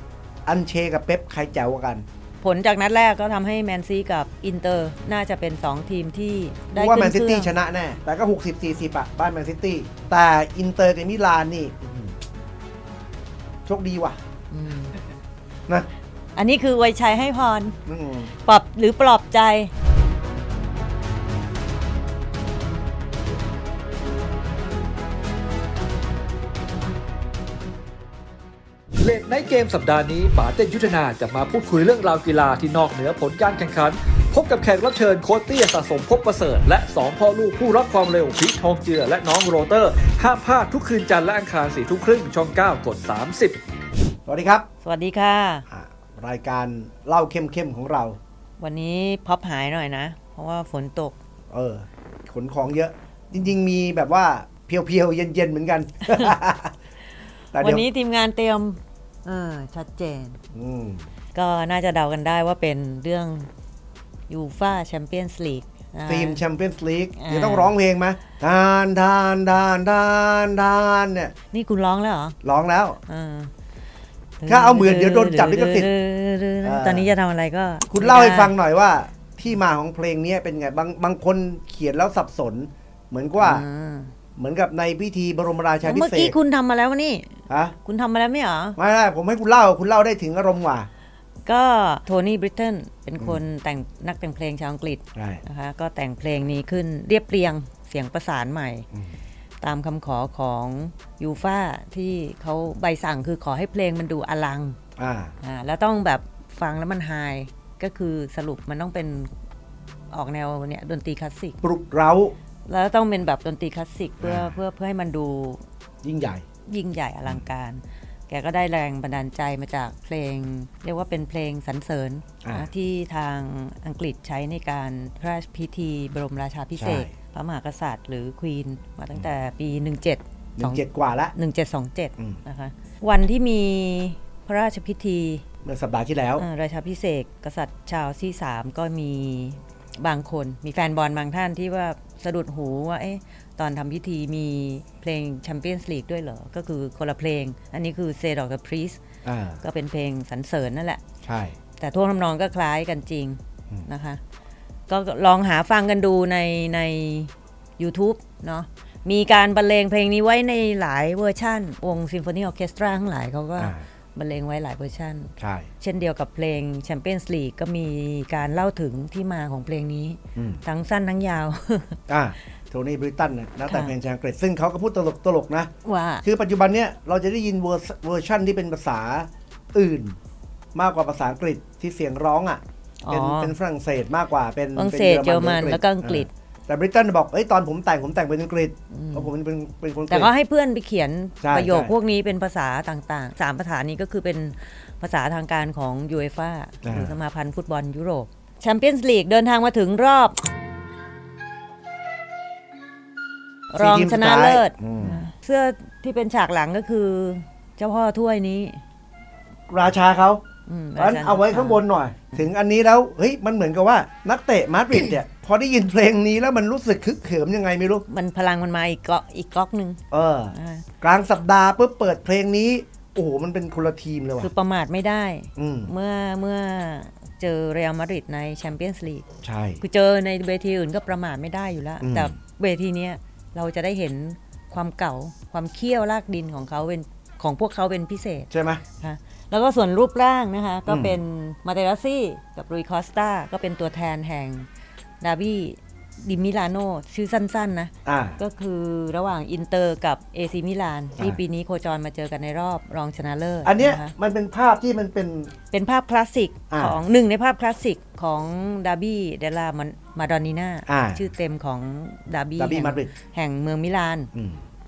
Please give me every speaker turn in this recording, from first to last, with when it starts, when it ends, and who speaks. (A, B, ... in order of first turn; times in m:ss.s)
0:00.5-0:02.0 A
0:02.4-0:07.5 B
0:06.8-0:12.2 A
0:13.7-0:14.2 A
0:14.5-0:14.9 B
0:16.4-0:17.8 B
0:17.9-0:18.3 A
0:18.4-0:19.7 B
0:29.0-0:43.6 C
0:44.3-0:44.7 A
0:44.8-0:45.7 B
0:45.7-0:48.2 A
0:48.6-0:51.2 B
0:51.5-0:56.8 A
0:56.1-0:56.4 B
0:57.5-0:57.8 A
0:57.6-1:00.4 B
1:00.5-1:01.0 A
1:01.4-1:03.5 B
1:04.3-1:06.4 B
1:06.1-1:11.3 A
1:07.2-1:07.7 B
1:11.5-1:12.4 B
1:12.4-1:13.0 A
1:13.1-1:13.5 B
1:14.4-1:18.5 B
1:14.5-1:15.9 A
1:16.6-1:17.1 A
1:17.9-1:23.6 A
1:23.4-1:24.1 B
1:24.4-1:26.4 A
1:25.8-1:27.3 B
1:27.5-1:27.8 A
1:27.8-1:28.8 B
1:28.8-1:30.9 A
1:31.5-1:38.9 B
1:35.2-1:35.4 A
1:39.6-1:44.8 B
1:45.0-1:45.3 A
1:45.4-1:49.3 B
1:50.1-1:51.6 B
1:51.6-1:52.4 A
1:52.7-1:55.6 B
1:54.2-1:54.6 A
1:56.0-1:56.4 A
1:56.7-2:10.8 B
2:02.4-2:02.7 A
2:06.8-2:07.1 A
2:10.6-2:11.3 A
2:11.4-2:15.4 B
2:15.6-2:16.4 A
2:16.4-2:29.0 B
2:29.2-2:29.6 A
2:29.6-2:31.0 B
2:31.2-2:31.6 A
2:31.8-2:34.2 B
2:34.9-2:52.0 B
2:45.4-2:45.7 A
2:52.1-2:55.7 A
2:53.7-2:53.9 B
2:55.8-2:56.2 B
2:56.2-3:00.2 A
3:00.8-3:10.3 A
3:03.0-3:03.5 B
3:04.8-3:06.3 B
3:08.9-3:09.3 B
3:10.1-3:20.4 B
3:11.4-3:11.9 A
3:16.8-3:17.2 A
3:23.7-3:28.8 B
3:23.8-3:25.2 A
3:29.7-3:30.4 A
3:30.7-3:31.8 B
3:31.0-3:38.0 A
3:38.1-3:40.9 B
3:40.1-3:44.5 A
3:44.4-3:49.2 B
3:45.6-3:45.9 A
3:49.4-3:49.8 A
3:49.8-4:04.7 B
3:52.0-3:52.3 A
3:58.5-3:58.8 A
4:00.9-4:01.2 A
4:05.2-4:14.1 B
4:08.1-4:08.4 A
4:13.6-4:15.5 A
4:15.7-4:24.3 B
4:16.7-4:17.0 A
4:20.9-4:21.3 A
4:22.6-4:23.1 A
4:24.3-4:24.6 A